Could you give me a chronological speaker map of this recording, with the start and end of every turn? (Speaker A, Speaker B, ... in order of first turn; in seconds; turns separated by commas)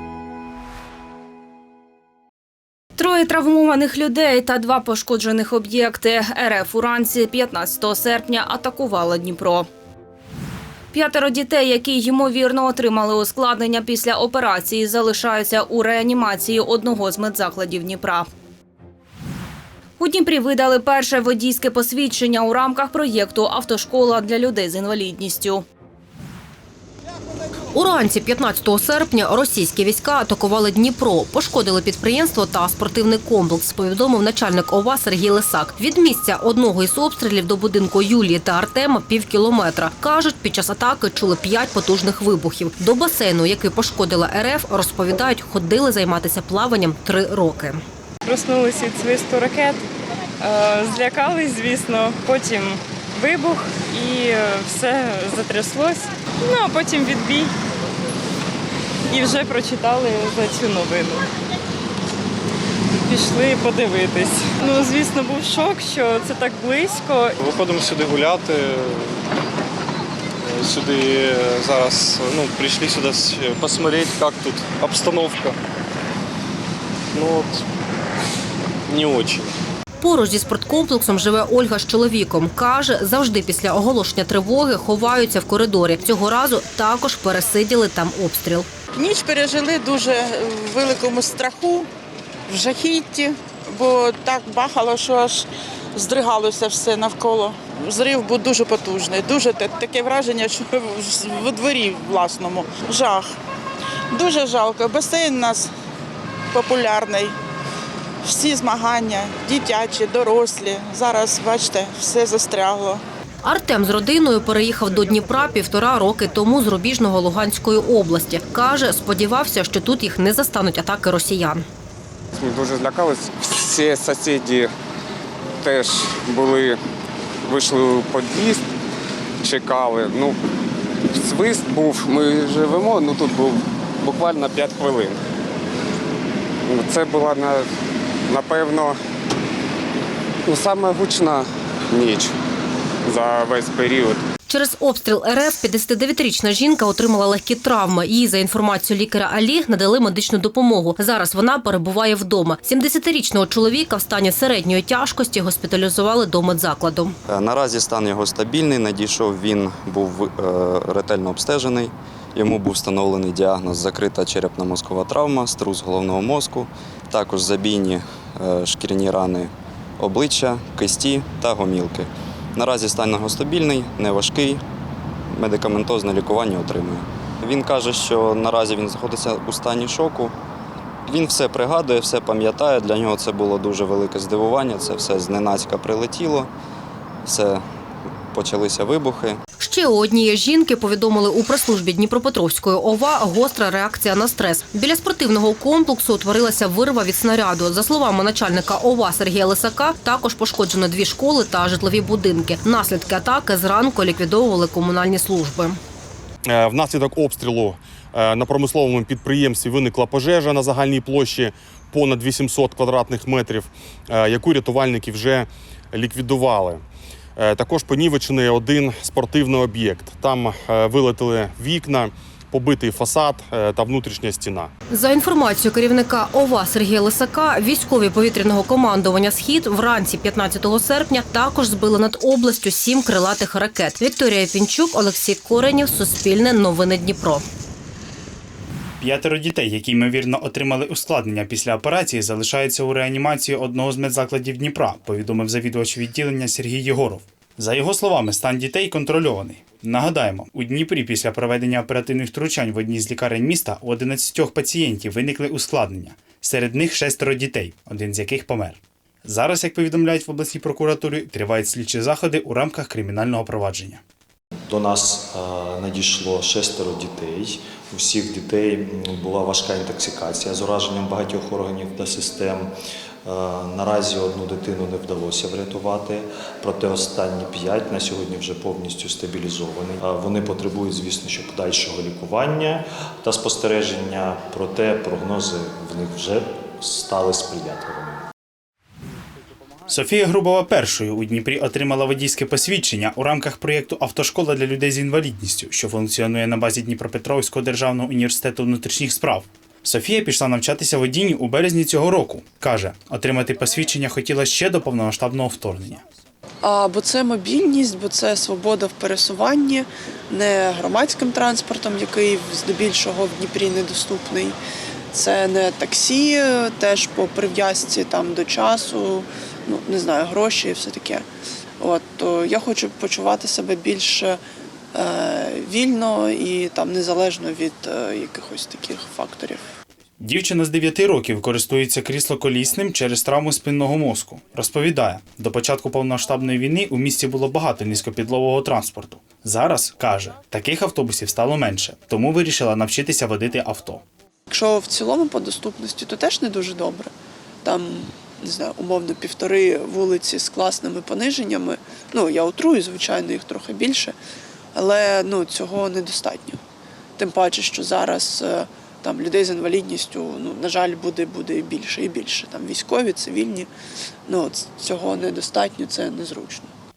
Speaker A: 3.0-9.7, Speaker A: 10.9-18.3, Speaker A: 20.0-25.6, Speaker B: 27.7-47.8, Speaker C: 48.3-49.8, Speaker C: 50.4-57.5, Speaker C: 59.1-61.2, Speaker C: 63.1-67.3, Speaker D: 67.5-68.9, Speaker D: 70.5-75.5, Speaker D: 77.2-77.6, Speaker D: 78.9-79.5, Speaker B: 80.0-88.7, Speaker E: 89.0-91.9, Speaker E: 92.5-103.3, Speaker E: 104.1-105.7, Speaker E: 106.5-107.3, Speaker E: 108.3-113.0, Speaker B: 113.4-121.7, Speaker F: 122.4-124.7, Speaker F: 125.6-126.8, Speaker F: 127.5-128.7, Speaker F: 129.4-130.4, Speaker F: 131.2-135.2, Speaker F: 136.7-137.7, Speaker F: 138.3-139.0, Speaker F: 140.5-142.3, Speaker F: 143.1-144.2, Speaker B: 144.5-157.2, Speaker G: 157.3-174.6, Speaker G: 175.3-180.3, Speaker G: 181.1-186.5, Speaker G: 187.2-187.6, Speaker G: 188.3-189.4, Speaker B: 189.6-205.8, Speaker H: 206.4-216.8, Speaker H: 217.4-224.7, Speaker B: 224.9-237.4, Speaker I: 239.0-264.0, Speaker J: 264.7-272.7, Speaker J: 273.2-288.2, Speaker I: 289.9-306.0, Speaker K: 306.6-314.6, Speaker K: 315.1-321.3, Speaker K: 321.8-324.4, Speaker K: 324.9-329.6, Speaker I: 330.2-344.0, Speaker K: 344.5-347.1, Speaker K: 347.6-354.2, Speaker K: 354.8-356.6, Speaker K: 357.2-363.7, Speaker K: 364.3-366.7